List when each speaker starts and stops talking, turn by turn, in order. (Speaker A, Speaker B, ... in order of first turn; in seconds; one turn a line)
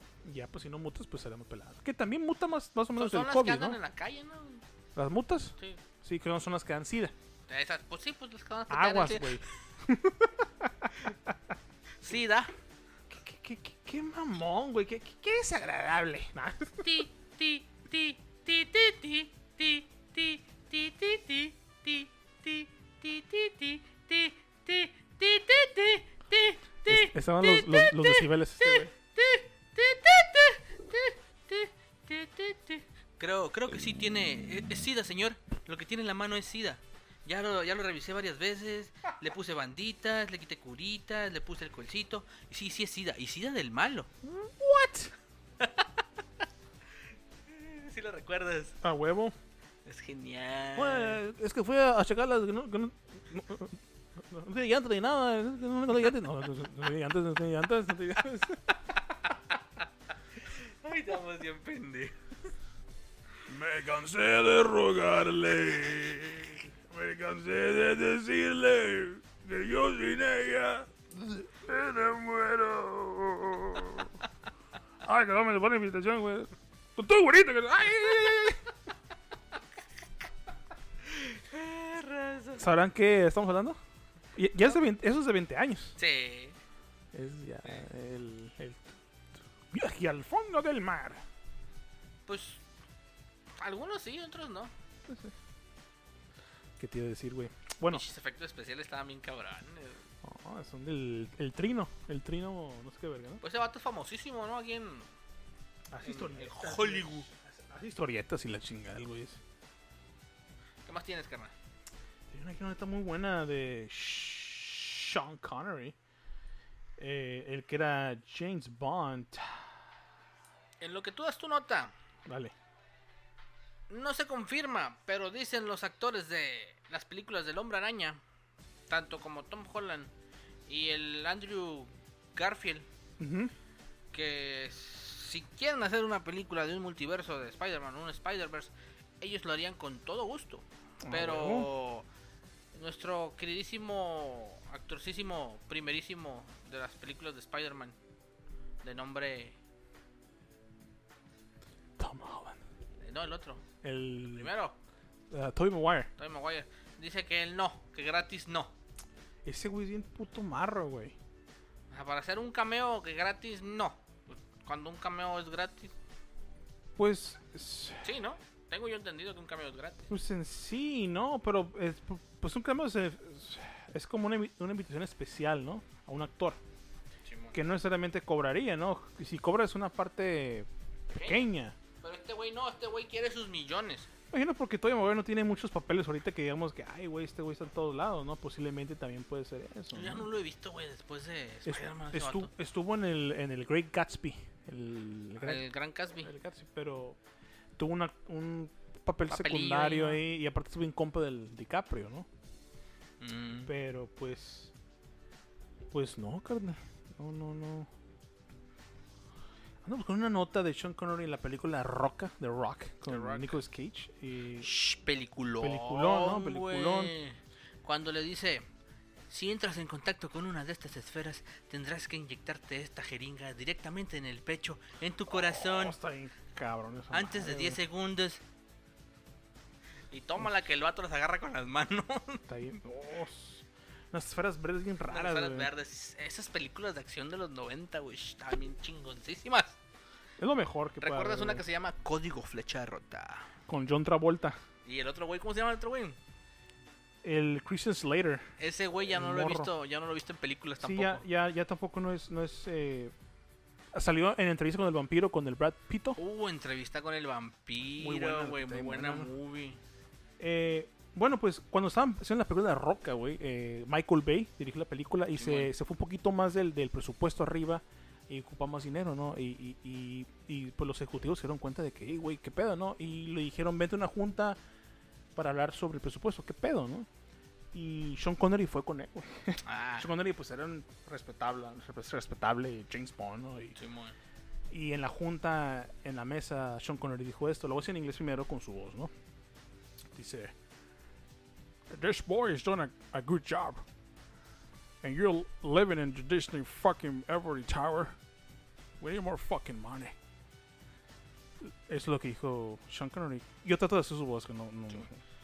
Speaker A: 0.2-3.8
Speaker B: 3.0-4.6
Speaker A: 4.9-7.1
Speaker B: 7.5-9.4
Speaker A: 8.7-11.4
Speaker B: 12.0-12.5
Speaker A: 13.1-17.0
Speaker B: 16.8-44.1
Speaker A: 26.9-28.9
Speaker A: 44.2-45.1
Speaker B: 45.6-45.9
Speaker B: 47.5-48.8
Speaker A: 48.8-49.3
Speaker B: 49.8-51.2
Speaker A: 50.7-58.8
Speaker B: 60.5-62.2
Speaker A: 63.5-74.1
Speaker A: 75.0-78.6
Speaker B: 81.0-82.7
Speaker A: 82.6-83.8
Speaker A: 84.3-86.0
Speaker B: 86.0-86.6
Speaker A: 87.1-89.0
Speaker A: 89.7-91.2
Speaker B: 92.3-92.6
Speaker B: 93.6-94.7
Speaker A: 95.1-95.3
Speaker A: 96.8-98.0
Speaker B: 97.9-100.0
Speaker A: 100.2-103.4
Speaker B: 103.4-105.1
Speaker A: 105.9-109.4
Speaker B: 106.0-107.3
Speaker B: 110.8-111.5
Speaker A: 112.3-116.0
Speaker A: 117.0-119.7
Speaker B: 120.8-121.9
Speaker A: 122.3-122.5
Speaker B: 123.9-128.2
Speaker B: 128.9-130.1
Speaker B: 130.7-132.9
Speaker A: 133.2-133.5
Speaker B: 134.1-142.1
Speaker A: 141.0-141.7
Speaker B: 142.7-147.9
Speaker B: 148.8-149.6
Speaker A: 152.0-152.6
Speaker B: 153.0-153.6
Speaker A: 153.8-154.5
Speaker B: 154.3-154.8
Speaker A: 155.3-156.1
Speaker B: 156.2-158.7
Speaker A: 159.4-161.2
Speaker B: 161.9-165.9
Speaker A: 166.9-168.1
Speaker B: 168.0-170.1
Speaker A: 170.1-176.6
Speaker B: 177.2-177.6
Speaker A: 177.5-181.8
Speaker B: 181.1-181.4
Speaker B: 182.0-184.1
Speaker A: 184.3-190.3
Speaker B: 189.9-192.5
Speaker A: 191.7-195.7
Speaker B: 195.4-196.3
Speaker A: 196.2-197.2
Speaker A: 197.8-202.3
Speaker B: 199.3-200.2
Speaker B: 203.2-203.7
Speaker A: 203.7-204.7
Speaker A: 205.9-207.9
Speaker A: 209.8-214.7
Speaker B: 213.1-213.6
Speaker B: 214.6-218.7
Speaker A: 215.6-217.1
Speaker B: 219.3-226.0
Speaker A: 225.3-227.8
Speaker B: 227.1-228.4
Speaker B: 230.1-232.4
Speaker A: 232.5-235.7
Speaker B: 235.1-239.8
Speaker A: 240.4-241.6
Speaker B: 241.0-243.5
Speaker A: 243.7-244.6
Speaker B: 244.8-246.2
Speaker A: 247.2-248.4
Speaker B: 248.6-251.2
Speaker A: 249.1-249.7
Speaker A: 250.8-253.1
Speaker A: 253.9-256.2
Speaker B: 256.1-259.8
Speaker A: 258.0-259.3
Speaker A: 260.4-274.6
Speaker B: 265.3-265.7
Speaker A: 275.4-277.1
Speaker A: 277.7-283.8
Speaker B: 279.6-280.1
Speaker B: 283.7-284.1
Speaker A: 284.7-289.1
Speaker A: 290.1-290.5
Speaker A: 291.9-293.8
Speaker A: 295.0-298.2
Speaker A: 299.0-300.1
Speaker A: 301.6-305.2